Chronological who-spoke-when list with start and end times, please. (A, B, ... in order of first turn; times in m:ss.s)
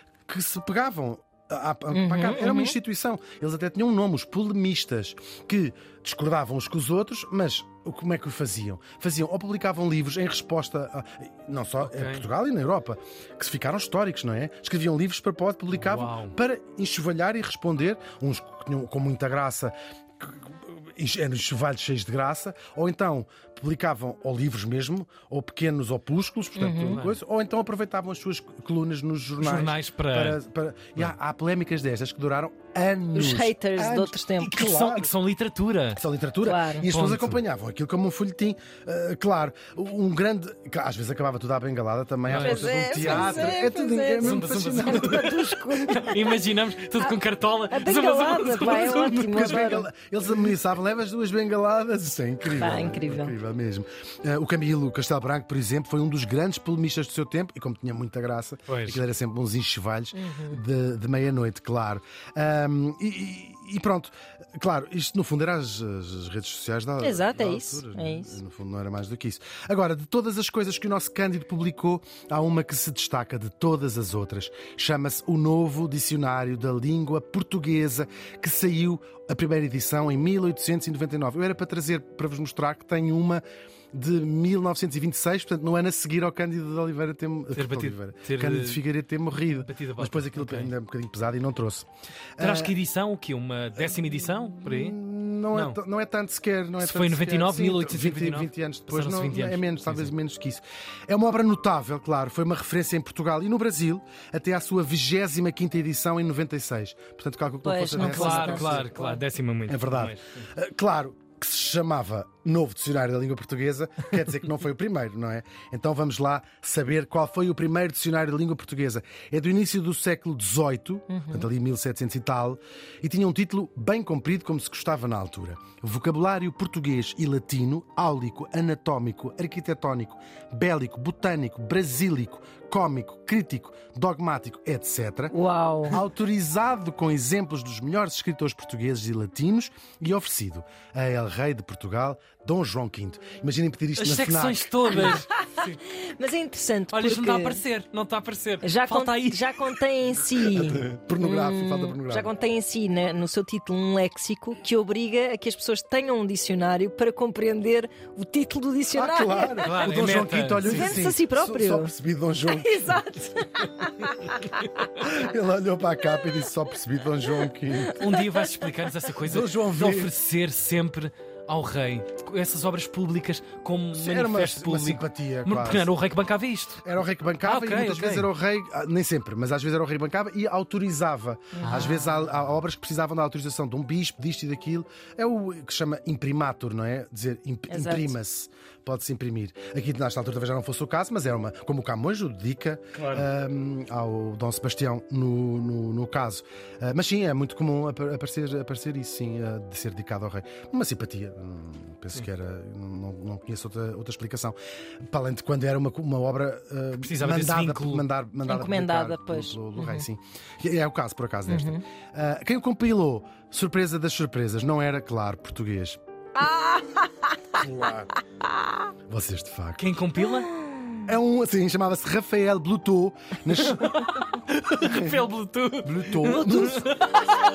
0:00.3-0:35.1 A
0:01.9-0:02.8 B
0:11.8-0:12.3 C
0:15.7-0:16.4 C
0:26.6-0:27.0 B
0:26.9-0:27.2 C
0:29.4-0:30.4 C
0:33.1-0:34.9 B
0:34.4-0:36.0 C
0:35.9-0:45.9 A
0:36.4-0:36.9 B
0:36.8-0:37.4 C
0:42.3-0:43.6 C
0:42.4-0:46.4 B
0:44.2-0:49.6 C
0:47.0-0:49.9 B
0:49.3-1:32.8 A
0:52.5-0:53.4 B
0:58.7-0:59.0 C
1:00.1-1:00.6 B
1:07.0-1:08.4 B
1:27.5-1:28.8 C
1:29.6-1:30.7 C
1:32.4-1:35.0 C
1:33.8-1:48.9 A
1:35.5-1:35.8 C
1:36.8-1:40.1 C
1:47.6-1:49.2 B
1:48.0-1:50.5 C
1:49.7-2:15.4 A
2:01.1-2:01.5 B
2:15.3-2:16.0 B
2:15.9-2:25.2 A
2:24.0-2:25.8 C
2:24.9-2:27.6 B
2:26.9-2:29.8 C
2:28.6-2:39.9 B
2:30.5-2:32.3 A
2:38.9-2:43.0 A
2:39.6-2:41.0 C
2:40.6-2:41.9 B
2:42.4-2:45.1 B
2:45.0-2:48.1 A
2:47.8-2:48.3 B
2:48.0-2:58.3 C
2:49.2-2:50.1 A
2:53.9-2:55.9 A
2:56.8-3:36.0 A
3:01.6-3:01.9 B
3:01.6-3:02.4 C
3:07.7-3:08.2 B
3:13.0-3:13.3 C
3:27.0-3:28.1 C
3:28.5-3:30.1 B
3:31.5-3:31.8 B
3:36.4-3:37.6 B
3:37.6-3:38.1 A
3:39.1-3:39.8 A
3:39.8-3:40.5 C
3:40.5-3:41.0 B
3:41.0-3:44.0 A
3:43.6-3:47.4 C
3:44.8-3:45.3 A
3:45.8-3:46.9 A